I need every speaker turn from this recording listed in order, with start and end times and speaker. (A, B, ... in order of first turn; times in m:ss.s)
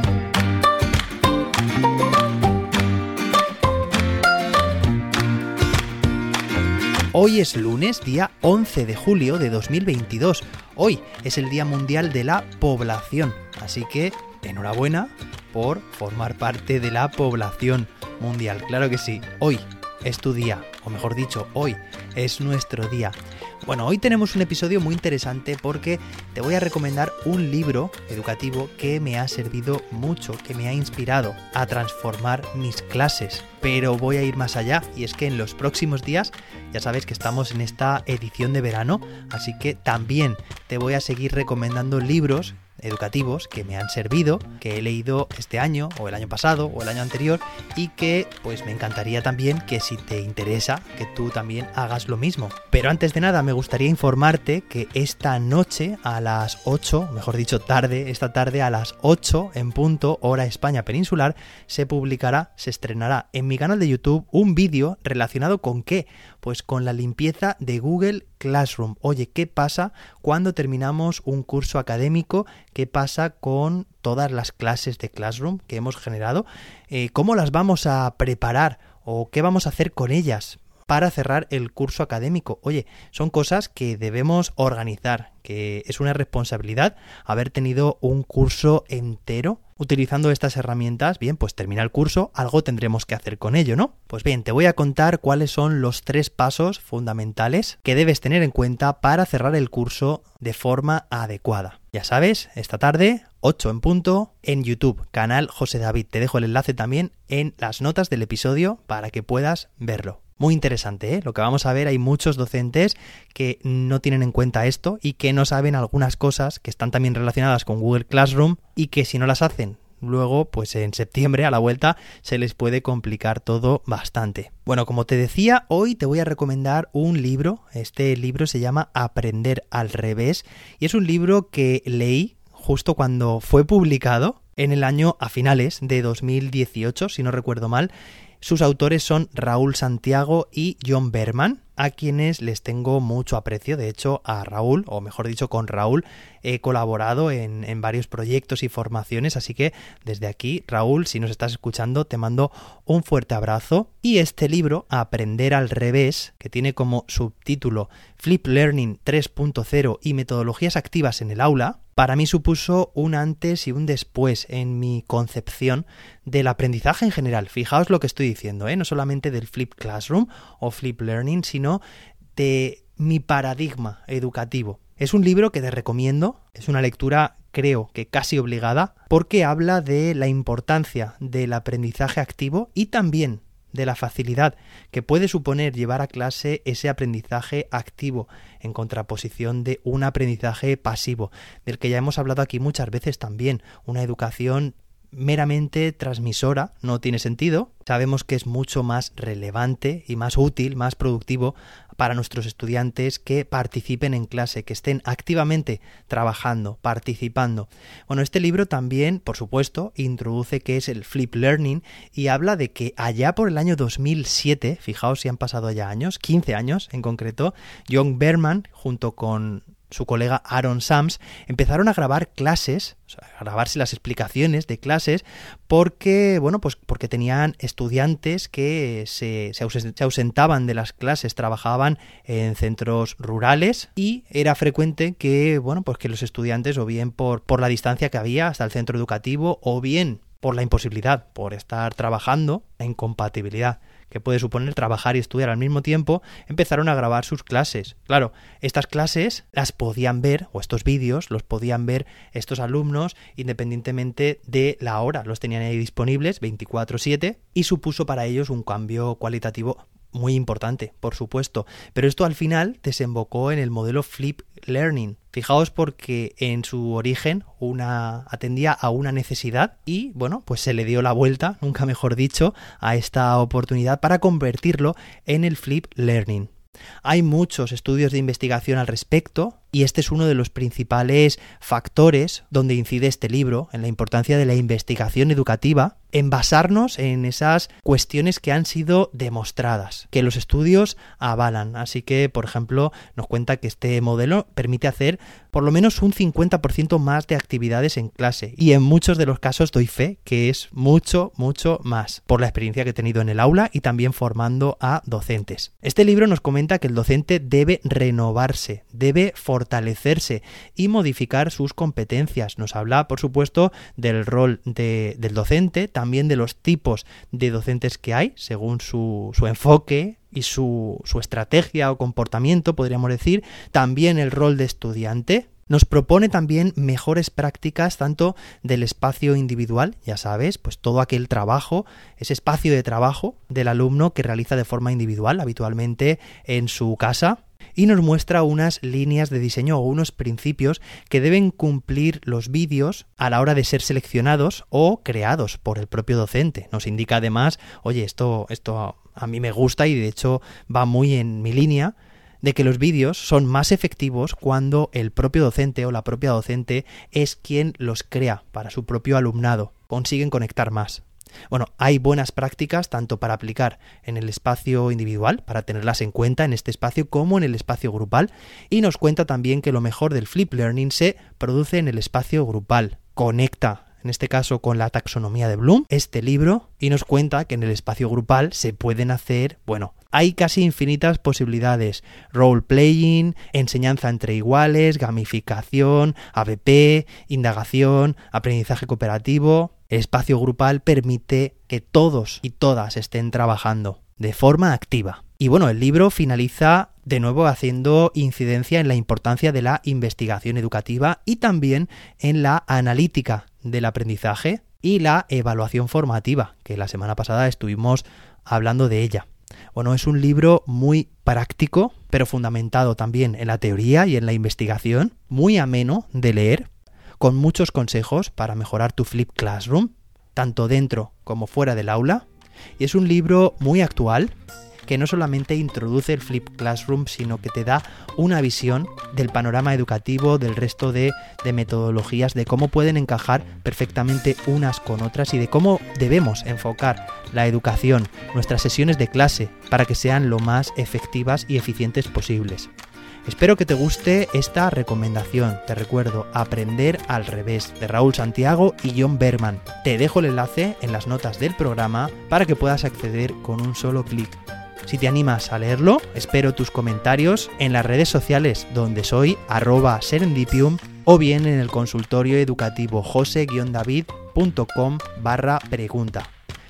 0:07.1-2:51.8 A
2:52.4-4:36.5 A
4:37.0-6:56.7 A
6:57.2-7:02.2 A
7:02.8-7:04.3 A
7:04.9-7:22.7 A
7:23.2-7:46.3 A